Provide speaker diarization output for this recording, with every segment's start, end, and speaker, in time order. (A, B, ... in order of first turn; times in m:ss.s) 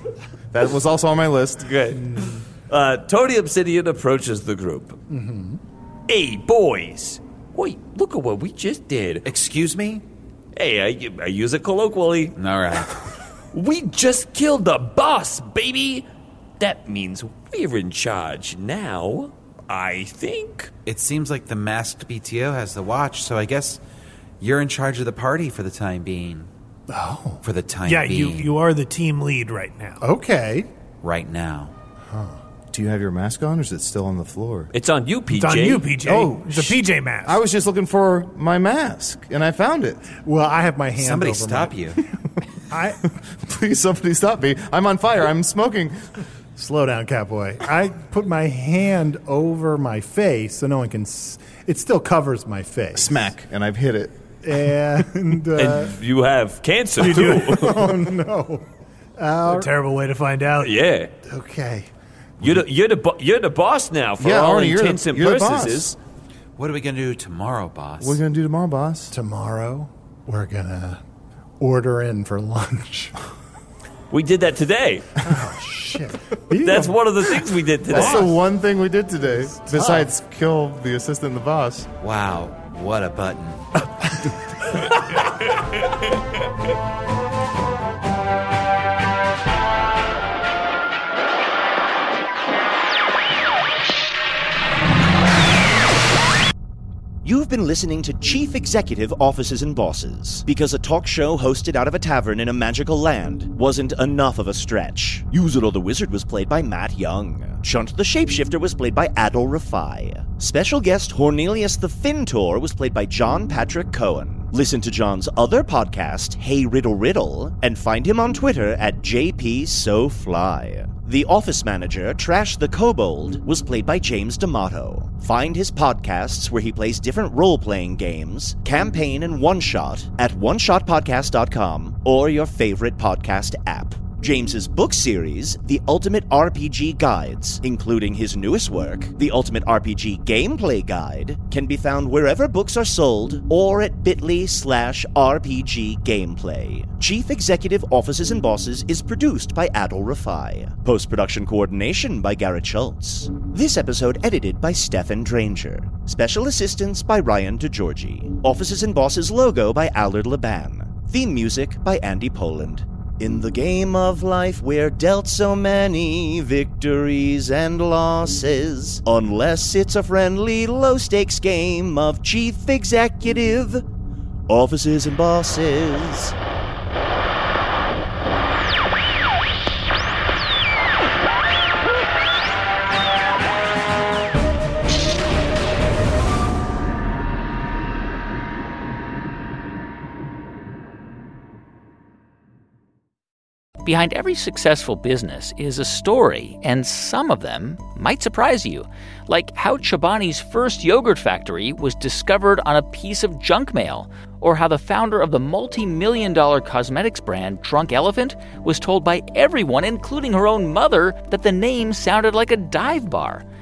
0:00.5-0:01.7 A
0:01.6-0:05.0 B
0:05.1-0:05.6 C
0:06.1-0:09.2 B
0:09.2-0:10.0 D
0:10.5-0:12.4 B
0:12.4-0:12.9 D
0:13.5-0:16.0 B
0:16.6-0:20.7 B
0:20.8-0:23.8 D
0:24.4-0:26.5 D
0:26.9-0:27.4 C
0:27.4-0:28.5 D
0:27.8-0:30.0 E
0:30.0-0:30.7 C
0:31.0-0:31.7 D
0:32.1-0:32.4 C
0:32.7-0:34.7 A
0:34.7-0:35.9 B
0:35.3-0:37.4 E
0:36.0-0:40.1 A
0:40.2-0:42.0 C
0:41.0-0:42.0 D
0:42.7-0:43.0 C
0:43.4-0:46.0 A
0:46.6-0:53.3 C
0:52.9-0:54.2 A
0:54.4-0:56.0 C
0:55.6-0:58.0 B
0:57.0-0:58.6 C
0:57.0-0:57.4 E
0:59.2-0:59.7 C
0:59.4-1:00.7 E
1:00.6-1:01.1 B
1:01.3-1:01.9 C
1:02.4-1:05.9 B
1:04.2-1:05.9 A
1:06.6-1:08.2 D
1:08.0-1:09.1 A
1:09.1-1:11.0 C
1:11.6-1:13.1 C
1:14.1-1:15.2 B
1:15.2-1:17.3 C
1:16.6-1:18.3 B
1:17.8-1:18.4 C
1:17.9-1:21.9 A
1:19.3-1:20.1 C
1:22.0-1:23.6 D
1:37.2-2:53.9 F
2:54.5-2:56.4 F
3:13.8-3:33.4 G